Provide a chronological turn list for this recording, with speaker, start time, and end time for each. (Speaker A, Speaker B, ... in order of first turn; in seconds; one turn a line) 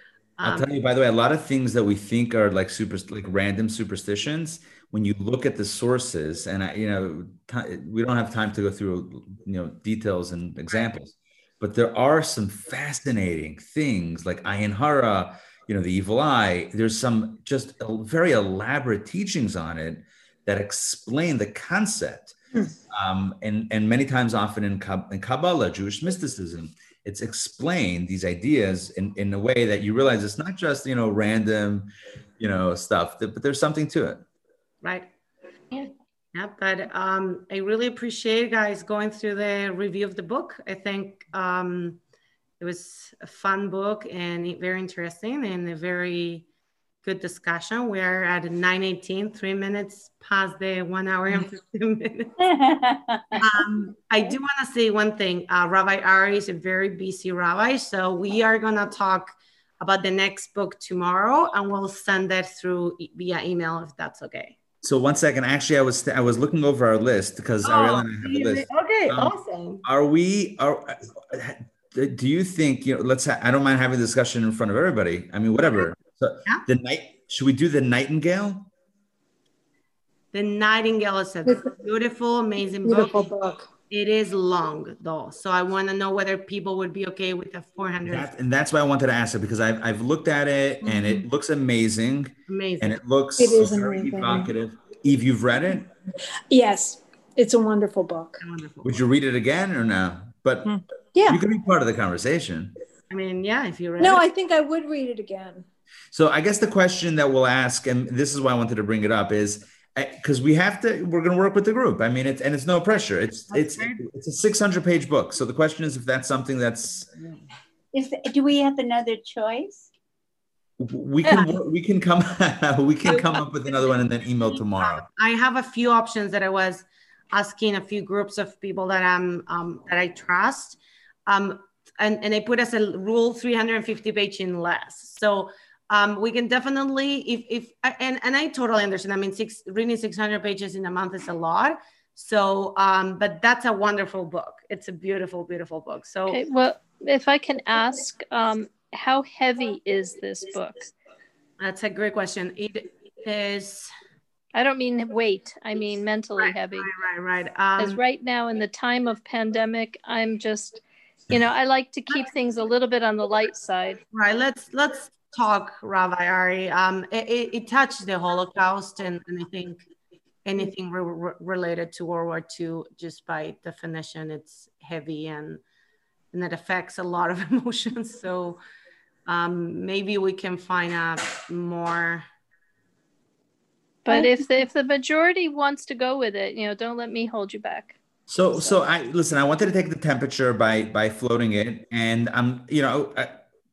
Speaker A: 0.4-0.7
Speaker B: 0.4-22.4
Speaker B: 22.9-34.2
Speaker A: 34.8-35.1
Speaker A: 36.3-42.0
Speaker A: 42.6-46.5
Speaker A: 47.0-52.3
Speaker C: 52.4-53.6
Speaker A: 53.4-64.6
Speaker B: 64.8-78.7
Speaker A: 67.6-69.8
Speaker A: 80.3-83.2
Speaker D: 82.8-83.7
Speaker A: 83.9-88.3
Speaker B: 88.1-95.9
Speaker A: 90.8-91.1
Speaker A: 92.5-93.0
Speaker D: 93.4-94.5
Speaker D: 96.5-98.4
Speaker A: 98.4-99.0
Speaker B: 98.8-100.7
Speaker B: 101.3-102.7
Speaker A: 103.1-104.2
Speaker D: 104.0-105.7
Speaker B: 106.1-117.1
Speaker A: 113.5-114.0
Speaker A: 117.2-117.4
Speaker C: 117.9-119.9
Speaker B: 120.8-125.0
Speaker A: 124.5-146.4
Speaker E: 146.3-150.9
Speaker A: 151.6-153.9
Speaker E: 154.5-156.9
Speaker A: 156.4-158.0
Speaker E: 157.8-164.0
Speaker A: 164.1-169.9
Speaker A: 170.5-175.6
Speaker A: 176.3-178.6
Speaker A: 179.3-182.3
Speaker E: 184.1-188.0
Speaker D: 184.1-184.3
Speaker B: 188.3-193.4